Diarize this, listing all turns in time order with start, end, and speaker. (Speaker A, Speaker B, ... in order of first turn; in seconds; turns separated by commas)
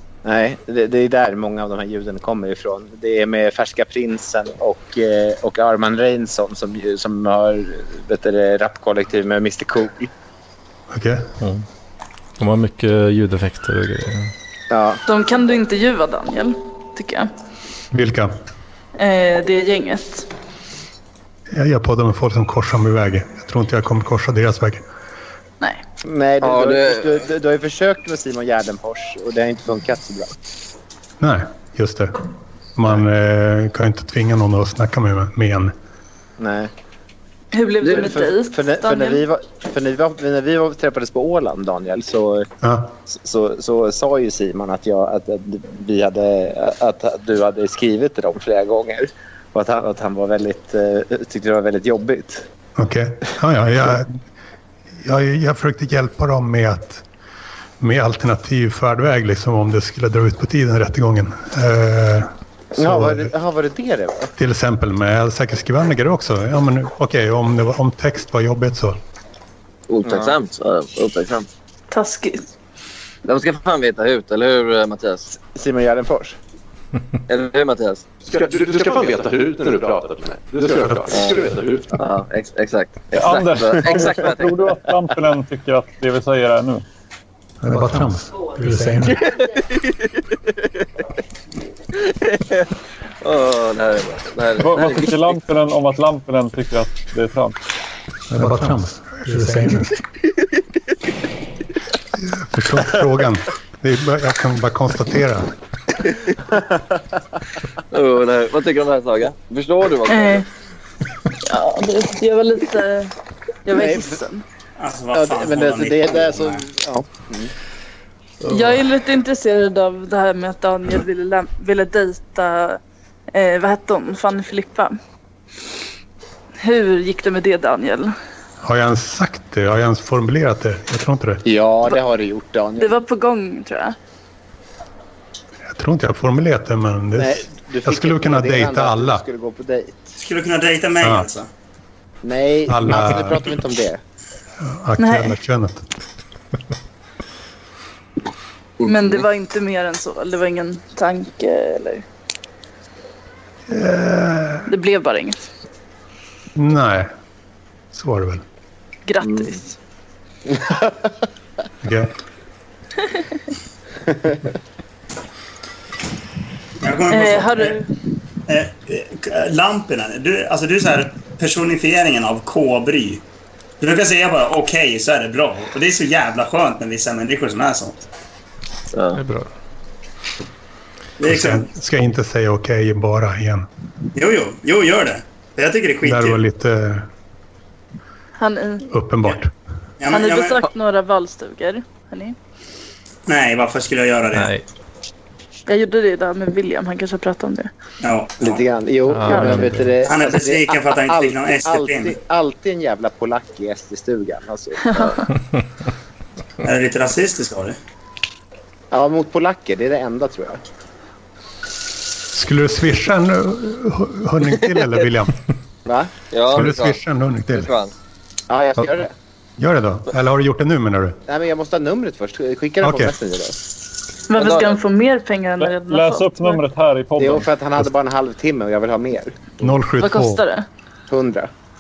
Speaker A: 0.2-10.1, Speaker B: 10.9-11.3, Speaker C: 12.4-14.3, Speaker A: 14.7-15.0, Speaker D: 15.1-17.3, Speaker B: 17.9-18.3, Speaker D: 19.0-20.3, Speaker B: 21.5-24.8, Speaker A: 26.1-30.3, Speaker E: 26.4-27.3, Speaker B: 31.2-32.2, Speaker B: 32.8-35.7, Speaker A: 36.4-36.7, Speaker D: 37.5-39.2, Speaker E: 37.8-38.2, Speaker A: 37.8-42.5, Speaker B: 42.6-42.9, Speaker A: 43.1-52.5, Speaker B: 52.8-54.2, Speaker B: 55.0-57.0, Speaker B: 57.8-63.3, Speaker A: 62.8-64.3, Speaker B: 64.4-69.0, Speaker E: 69.9-71.5, Speaker A: 70.0-70.3, Speaker D: 71.9-72.5, Speaker E: 73.2-75.3, Speaker A: 75.3-76.4, Speaker E: 77.3-78.0, Speaker F: 78.2-81.9, Speaker E: 81.1-84.8, Speaker G: 83.2-86.8, Speaker B: 87.6-89.2, Speaker E: 89.0-90.2, Speaker E: 91.9-92.7, Speaker E: 93.2-95.4, Speaker G: 94.6-97.6, Speaker B: 98.3-99.9, Speaker B: 102.2-105.5, Speaker E: 107.9-110.5, Speaker D: 110.1-110.5, Speaker D: 111.4-113.1, Speaker D: 113.7-114.4, Speaker A: 113.7-114.2, Speaker H: 114.8-116.7, Speaker A: 115.1-117.5, Speaker D: 118.5-122.8, Speaker D: 123.3-125.0, Speaker D: 126.6-128.1, Speaker B: 128.6-131.4, Speaker A: 131.4-133.0, Speaker D: 132.8-134.0, Speaker B: 135.7-139.2, Speaker A: 137.2-140.1, Speaker H: 140.2-141.5, Speaker B: 141.0-141.3, Speaker A: 142.2-144.0, Speaker B: 142.7-143.4, Speaker B: 144.6-145.8, Speaker D: 145.0-145.4, Speaker E: 148.8-149.3, Speaker D: 148.9-152.0, Speaker B: 153.7-154.7, Speaker D: 154.7-155.4, Speaker B: 156.6-157.1, Speaker B: 157.9-158.4, Speaker D: 159.1-159.8, Speaker A: 160.6-160.9, Speaker B: 161.8-162.1, Speaker H: 166.8-167.8, Speaker D: 167.1-167.9, Speaker H: 168.5-173.2, Speaker H: 173.8-178.0, Speaker E: 178.9-179.2, Speaker C: 179.2-179.5, Speaker H: 181.2-181.7, Speaker B: 181.2-183.7, Speaker H: 184.1-186.4, Speaker B: 186.0-187.1, Speaker D: 188.4-188.8, Speaker B: 188.9-189.5, Speaker H: 190.0-190.7, Speaker D: 190.1-192.4, Speaker H: 193.3-194.5, Speaker C: 194.3-194.7, Speaker D: 195.7-197.7, Speaker H: 198.0-198.6, Speaker A: 198.4-205.1, Speaker C: 199.1-199.9, Speaker H: 200.0-202.2, Speaker D: 204.8-205.3, Speaker E: 205.0-205.2, Speaker H: 206.6-207.8, Speaker A: 208.9-210.6, Speaker B: 212.3-215.4, Speaker E: 214.5-215.1, Speaker A: 215.9-216.1, Speaker E: 216.3-217.9, Speaker B: 216.5-217.7, Speaker A: 218.5-219.1, Speaker B: 219.6-221.2, Speaker A: 221.3-223.6, Speaker B: 222.8-223.1, Speaker D: 224.3-226.6, Speaker E: 224.4-224.8, Speaker G: 225.6-227.5, Speaker A: 227.2-229.7, Speaker B: 229.6-230.4, Speaker D: 230.0-230.7, Speaker A: 231.1-231.5